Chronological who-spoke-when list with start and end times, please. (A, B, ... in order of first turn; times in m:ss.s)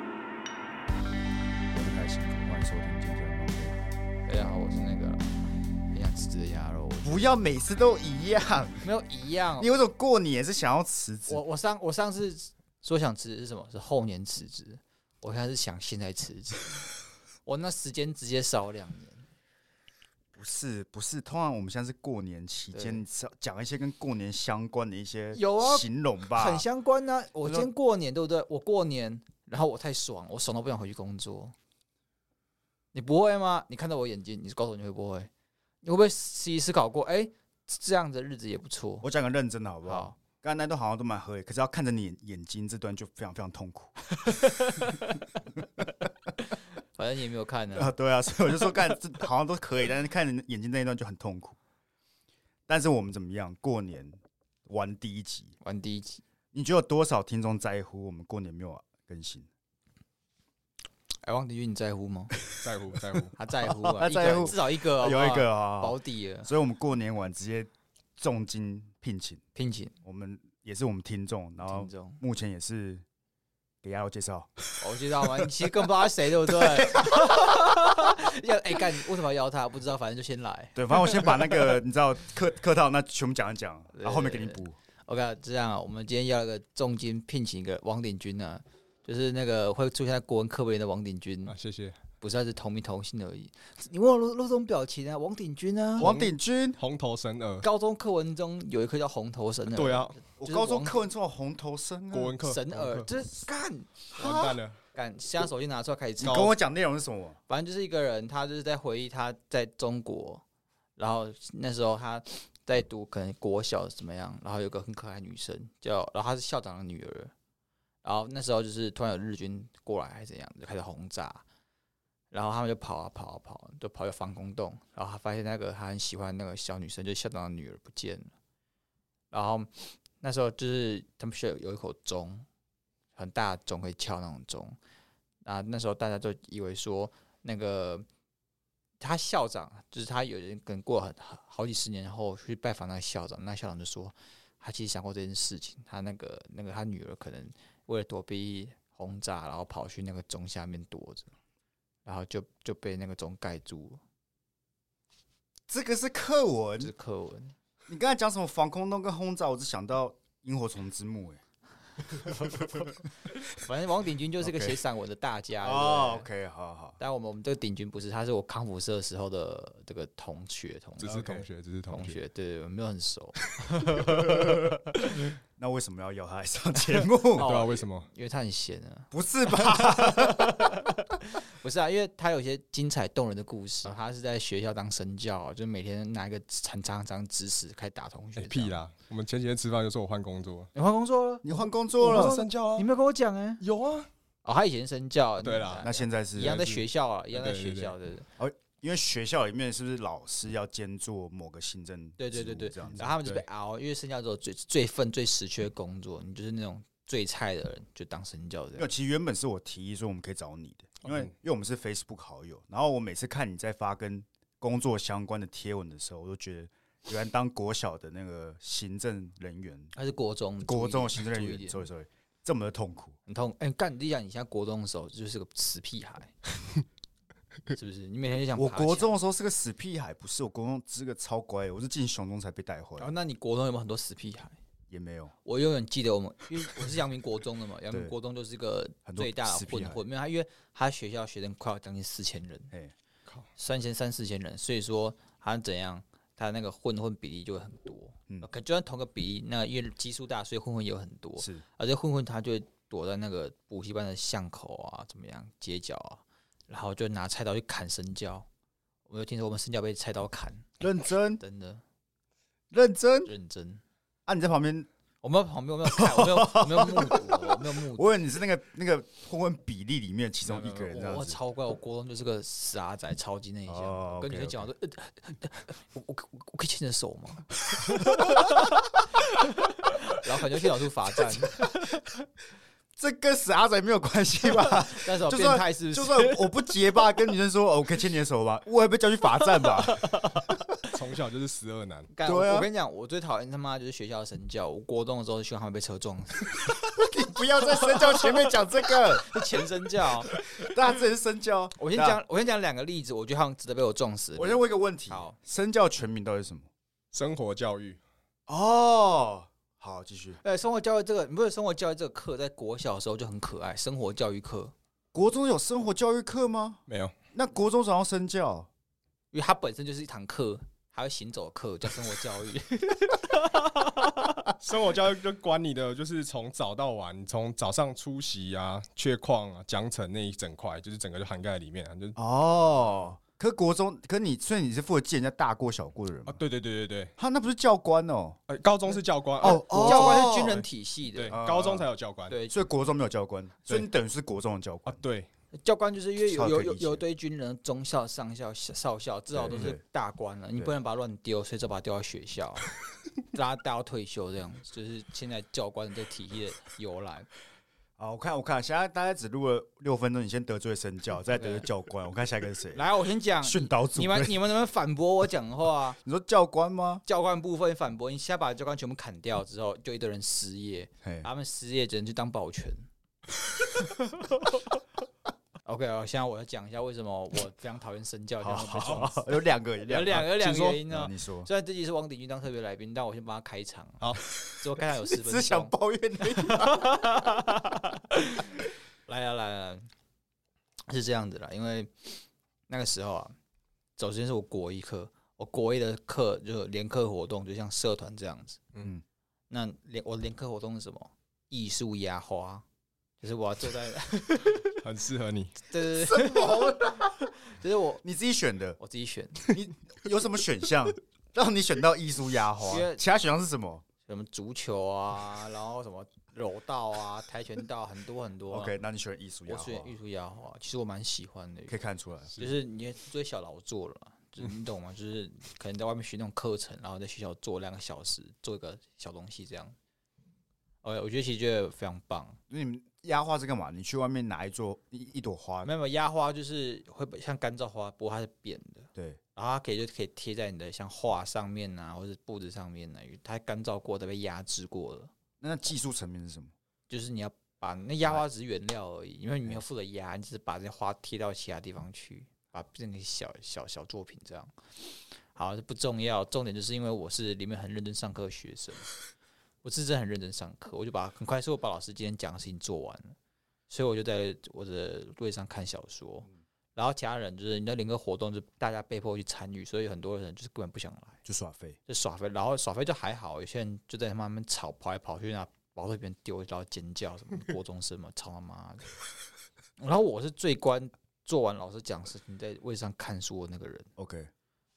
0:01.7-0:03.8 A
0:04.2-0:07.4 B
0:07.0-0:08.9 A
0:08.8-0:09.7 B
0:09.6-0:11.4 A
0:11.3-0:16.8 B
0:17.5-0:19.2 B
0:20.4-0:26.6 A
0:22.7-0:23.0 B
0:25.3-0:31.6 B
0:32.9-0:35.3 B
0:35.8-0:39.1 B
0:39.0-0:44.9 A
0:39.9-0:40.2 B
0:44.3-0:45.1 B
0:47.0-0:47.9 B
0:47.7-0:51.6 A
0:52.7-0:55.6 A
0:55.6-0:56.2 B
0:56.5-0:59.5 A
1:01.2-1:02.4 B
1:02.5-1:03.3 C
1:03.4-1:06.5 B
1:03.7-1:09.4 A
1:09.6-1:10.0 B
1:10.0-1:13.0 A
1:11.7-1:12.2 B
1:13.8-1:14.6 A
1:14.8-1:21.7 B
1:20.8-1:24.8 A
1:23.9-1:31.5 B
1:31.4-1:32.0 C
1:32.2-1:36.1 B
1:36.0-1:36.8 A
1:36.0-1:37.6 C
1:37.6-1:41.1 B
1:39.7-1:40.2 C
1:40.4-1:42.4 A
1:42.1-1:43.1 C
1:42.4-1:44.3 B
1:44.2-1:44.8 C
1:44.2-1:44.6 A
1:44.9-1:46.6 B
1:46.2-1:47.4 A
1:46.2-1:46.5 C
1:47.5-1:50.4 B
1:51.0-1:57.3 B
1:58.0-2:01.4 B
2:02.3-2:08.3 B
2:09.3-2:12.4 B
2:13.2-2:14.8 B
2:15.4-2:18.1 B
2:19.0-2:31.3 B
2:32.0-2:34.0 B
2:35.7-2:36.9 A
2:36.8-2:37.5 B
2:37.9-2:41.4 A
2:42.1-2:46.3 B
2:45.6-2:47.0 A
2:47.0-2:55.2 B
2:51.0-2:52.2 C
2:55.6-2:57.5 A
2:57.3-3:08.8 B
2:57.4-2:58.1 C
2:59.1-3:00.8 A
3:08.4-3:10.7 C
3:10.7-3:13.6 B
3:11.4-3:12.4 A
3:12.0-3:12.9 C
3:13.6-3:14.1 C
3:14.4-3:18.3 B
3:15.4-3:15.8 C
3:15.8-3:16.6 A
3:16.4-3:17.9 C
3:18.4-3:23.2 A
3:22.2-3:28.9 B
3:28.8-3:39.9 A
3:39.9-3:41.8 B
3:40.6-3:43.2 A
3:43.3-3:46.3 B
3:47.7-3:49.1 B
3:48.6-3:53.1 A
3:53.0-3:54.6 B
3:54.9-3:55.3 A
3:55.4-4:02.7 B
3:59.0-4:00.0 A
4:03.6-4:18.5 B
4:11.4-4:11.6 A
4:19.1-4:20.8 B
4:20.8-4:21.4 A
4:21.4-4:21.8 B
4:22.7-4:23.3 A
4:23.2-4:23.8 B
4:24.2-4:24.9 A
4:25.2-4:28.1 B
4:25.9-4:31.4 A
4:30.5-4:38.9 B
4:33.7-4:34.7 A
4:37.9-4:38.2 A
4:39.8-4:41.7 B
4:43.0-4:50.1 A
4:44.8-4:46.5 B
4:49.6-4:50.5 B
4:50.9-4:52.1 C
4:52.1-4:56.7 B
4:52.2-4:52.7 A
4:56.7-4:59.3 A
4:57.6-4:58.3 B
4:59.1-5:00.3 B
5:00.4-5:02.2 A
5:01.8-5:05.4 B
5:04.4-5:06.7 A
5:07.1-5:08.0 C
5:08.5-5:10.4 A
5:10.4-5:14.7 B
5:15.1-5:16.8 A
5:16.9-5:17.1 C
5:17.3-5:18.7 A
5:19.3-5:24.5 B
5:24.6-5:32.2 C
5:32.2-5:36.4 A
5:36.3-5:37.1 C
5:37.2-5:38.4 A
5:38.5-5:42.4 C
5:39.4-5:40.6 A
5:39.4-5:41.4 B
5:41.3-5:41.9 A
5:42.3-5:42.6 B
5:42.5-5:45.0 A
5:44.9-5:45.3 C
5:45.5-5:52.7 B
5:46.2-5:47.0 A
5:49.3-5:49.8 A
5:53.3-5:57.3 B
5:58.0-6:02.8 A
6:01.3-6:01.7 B
6:02.7-6:06.0 B
6:03.4-6:04.4 A
6:06.0-6:07.0 A
6:07.0-6:12.8 B
6:11.0-6:11.3 A
6:15.6-6:25.7 B
6:18.4-6:21.5 A
6:20.2-6:20.6 C
6:25.1-6:27.3 A
6:26.3-6:29.9 B
6:30.9-6:33.3 B
6:34.0-6:38.6 B
6:39.5-6:42.6 B
6:43.2-6:44.8 B
6:44.8-6:45.6 C
6:45.7-6:48.0 B
6:46.0-6:47.1 A
6:48.0-6:48.8 A
6:48.8-6:49.4 B
6:49.4-6:53.8 A
6:52.6-6:53.0 B
6:54.1-6:58.7 B
6:58.5-6:59.9 A
6:59.5-7:01.8 B
7:01.7-7:02.4 A
7:02.4-7:09.7 B
7:10.8-7:12.4 B
7:12.5-7:15.7 A
7:15.6-7:25.1 B
7:25.4-7:26.5 A
7:26.9-7:38.9 B
7:39.6-7:43.2 B
7:43.7-7:51.2 B
7:51.2-7:51.8 A
7:51.9-7:58.9 B
7:59.8-8:03.9 B
8:04.0-8:04.3 A